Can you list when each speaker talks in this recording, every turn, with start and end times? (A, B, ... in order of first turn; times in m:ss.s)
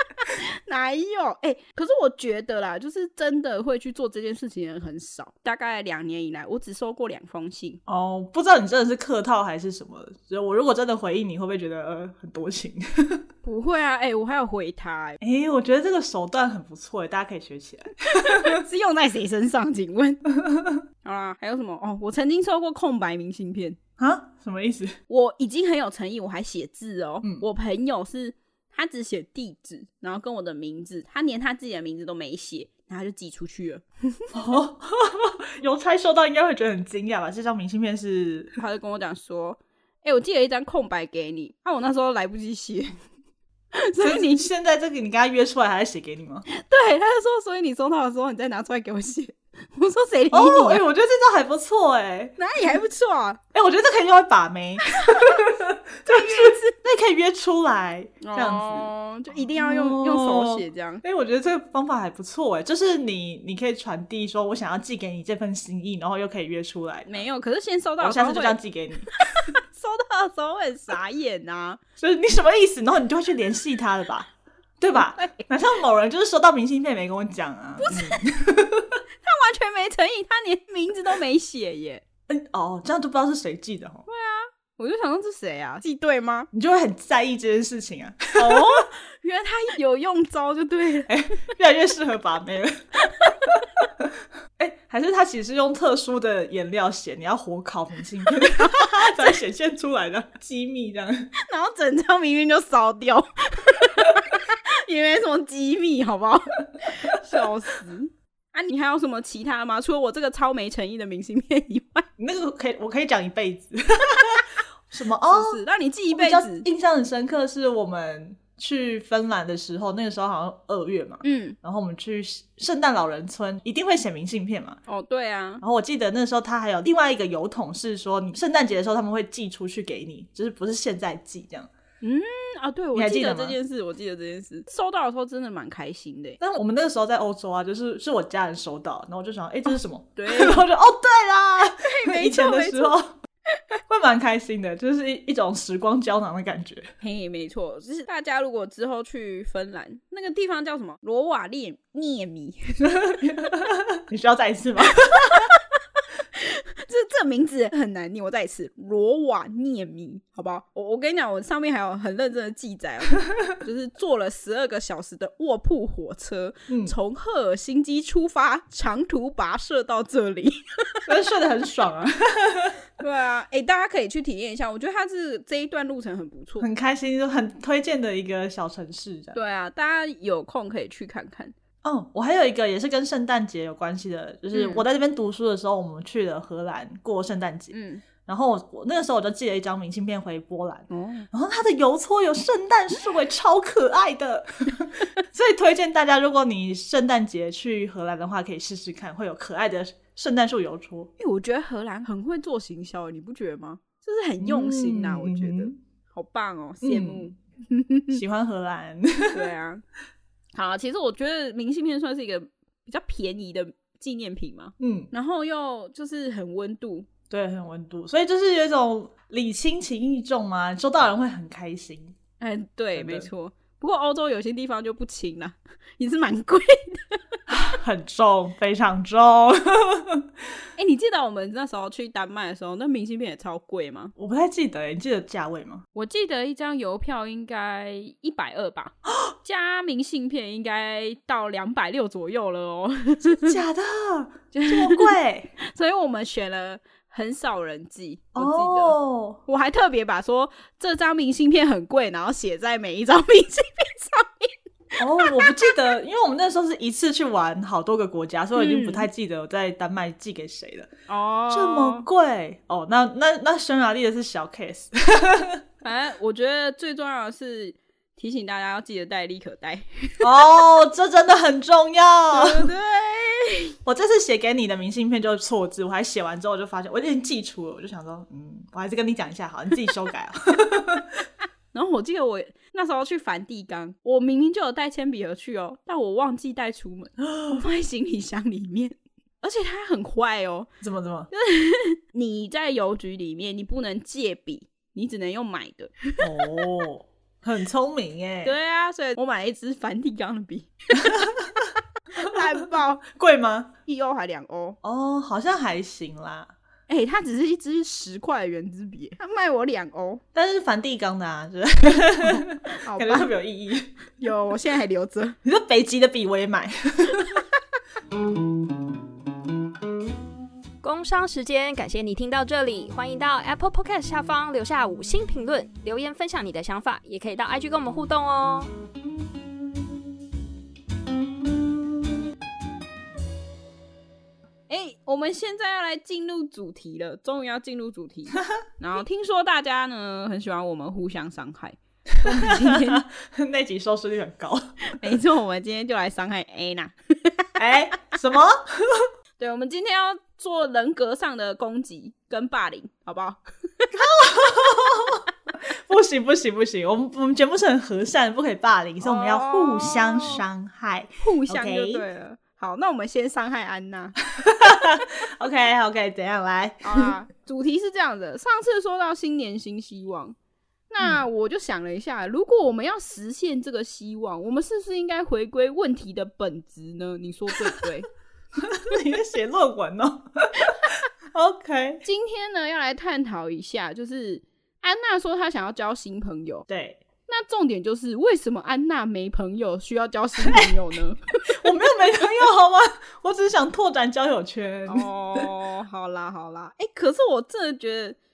0:00.3-0:07.8 A
0:07.9-0:13.2 B
0:13.4-0:15.2 A
0:15.2-0:18.6 B
0:18.1-0:20.2 A
0:20.3-0:20.8 B
0:21.0-0:23.8 A
0:24.0-0:25.0 B
0:25.1-0:34.3 A
0:34.3-0:38.6 B
0:38.6-0:43.0 A
0:43.7-0:44.5 A
0:44.0-0:46.5 B
0:46.5-0:50.8 A
0:50.3-0:52.4 B
0:52.4-0:53.4 A
0:53.5-1:07.2 B
0:54.9-0:55.4 A
0:56.1-0:56.8 A
0:58.2-1:01.0 A
1:07.1-1:08.6 A
1:08.0-1:09.2 B
1:09.3-1:11.8 A
1:12.0-1:19.0 B
1:15.2-1:15.4 A
1:17.8-1:18.3 A
1:19.2-1:22.0 A
1:22.3-1:24.1 B
1:24.1-1:26.5 A
1:26.5-1:28.8 B
1:28.4-1:31.2 A
1:31.1-1:41.3 B
1:38.6-1:38.8 A
1:41.4-1:52.1 A
1:52.2-1:55.6 B
1:55.3-1:56.7 A
1:56.1-2:04.8 B
2:01.2-2:01.6 A
2:04.9-2:05.6 A
2:05.6-2:11.7 B
2:12.0-2:16.4 A
2:12.9-2:13.6 B
2:16.4-2:23.2 B
2:20.2-2:20.6 A
2:21.8-2:23.0 A
2:23.9-2:26.9 B
2:27.0-2:32.8 A
2:32.8-2:35.5 B
2:35.3-2:35.6 A
2:36.3-2:51.0 A
2:46.7-2:46.9 B
2:51.1-2:52.8 B
2:53.0-2:56.7 A
2:56.6-2:59.4 B
2:59.3-3:01.5 A
3:01.8-3:21.1 B
3:04.5-3:04.8 A
3:07.7-3:08.0 A
3:10.9-3:11.3 A
3:21.2-3:28.2 A
3:24.4-3:25.8 B
3:26.8-3:27.3 B
3:28.1-3:29.5 B
3:29.3-3:29.8 A
3:30.6-3:37.1 A
3:34.8-3:35.1 B
3:37.3-3:42.2 B
3:42.4-3:47.4 A
3:43.0-3:43.3 B
3:47.5-3:50.3 B
3:50.8-3:54.1 A
3:54.2-3:55.8 B
3:55.9-4:03.6 A
4:03.4-4:05.5 B
4:04.5-4:15.7 A
4:08.4-4:09.4 B
4:15.0-4:20.9 B
4:18.6-4:19.1 A
4:21.1-4:22.1 A
4:21.5-4:25.6 B
4:25.8-4:30.2 A
4:30.2-4:32.7 B
4:32.3-4:33.7 A
4:33.8-4:41.1 B
4:41.7-4:50.7 A
4:47.3-4:47.6 B
4:50.8-4:51.3 B
4:51.3-4:56.2 A
4:56.2-4:58.6 B
4:58.4-5:01.3 A
5:01.0-5:01.6 B
5:02.2-5:03.0 A
5:03.0-5:03.7 B
5:03.8-5:04.8 A
5:04.8-5:06.5 B
5:06.9-5:10.2 A
5:10.3-5:14.0 B
5:12.2-5:13.3 A
5:14.2-5:15.4 A
5:15.4-5:17.4 B
5:20.8-5:28.7 C
5:34.7-5:43.0 A
5:42.2-5:44.8 B
5:44.9-5:47.5 A
5:47.6-5:49.1 B
5:49.4-5:53.9 A
5:53.9-6:02.0 B
5:59.0-6:00.4 A
6:01.2-6:04.2 A
6:04.4-6:07.1 B
6:06.8-6:10.4 A
6:10.9-6:18.1 A
6:18.6-6:22.0 B
6:22.0-6:26.6 A
6:26.7-6:27.0 B
6:27.3-6:31.5 A
6:30.4-6:30.8 B
6:31.5-6:35.5 B
6:34.9-6:38.2 A